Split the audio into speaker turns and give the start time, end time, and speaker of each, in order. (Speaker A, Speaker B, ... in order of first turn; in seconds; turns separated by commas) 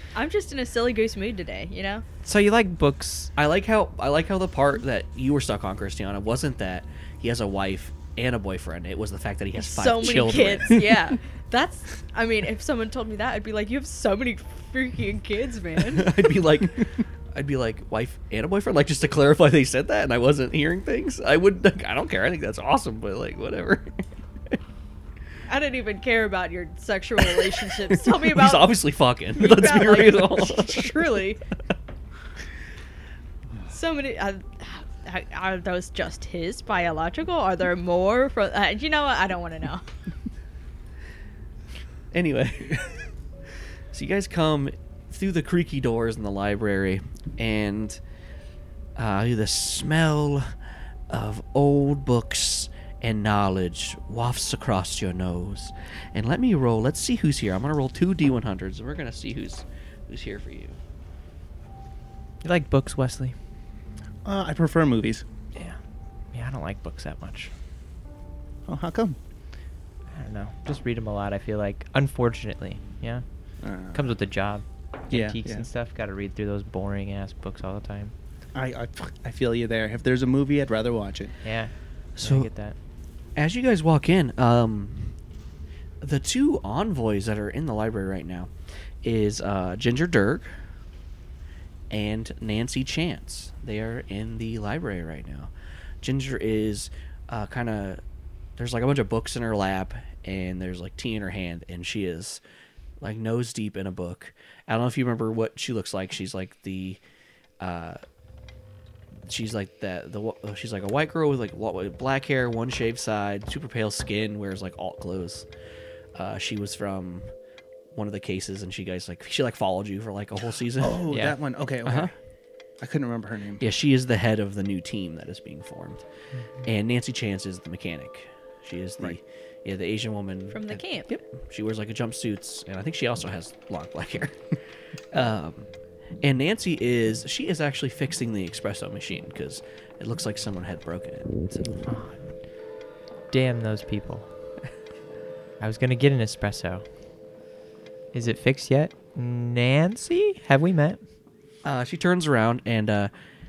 Speaker A: 0.1-2.0, Speaker B: 2.2-3.3, Speaker C: 3.4-11.1, Speaker A: 9.6-16.1, Speaker C: 15.8-24.6, Speaker A: 25.5-28.8, Speaker C: 27.4-31.2, Speaker A: 29.3-31.4, Speaker A: 33.7-39.9, Speaker C: 42.1-43.1, Speaker C: 43.9-48.0, Speaker C: 49.0-50.5, Speaker C: 51.1-60.8, Speaker B: 62.4-63.3, Speaker D: 64.2-65.2, Speaker B: 66.3-67.5, Speaker D: 68.7-69.2, Speaker B: 70.1-73.2, Speaker D: 73.6-74.2, Speaker B: 73.9-78.1, Speaker D: 75.1-75.7, Speaker D: 78.5-81.4, Speaker B: 81.4-82.7, Speaker C: 82.2-82.5, Speaker C: 83.3-85.2, Speaker C: 86.0-90.7, Speaker C: 91.9-98.0, Speaker C: 98.6-102.4, Speaker C: 103.0-107.0, Speaker C: 107.6-108.0, Speaker C: 109.2-115.5, Speaker C: 116.1-117.3, Speaker C: 117.9-121.0, Speaker D: 120.8-122.1, Speaker B: 121.1-121.4, Speaker C: 121.8-122.1, Speaker D: 122.8-123.6, Speaker C: 123.6-126.0, Speaker C: 126.6-134.6, Speaker A: 130.5-131.1, Speaker C: 135.1-135.7, Speaker C: 136.2-141.8, Speaker B: 141.8-142.5, Speaker B: 143.3-144.3, Speaker B: 145.6-146.8, Speaker B: 148.1-151.0, Speaker C: 151.6-153.1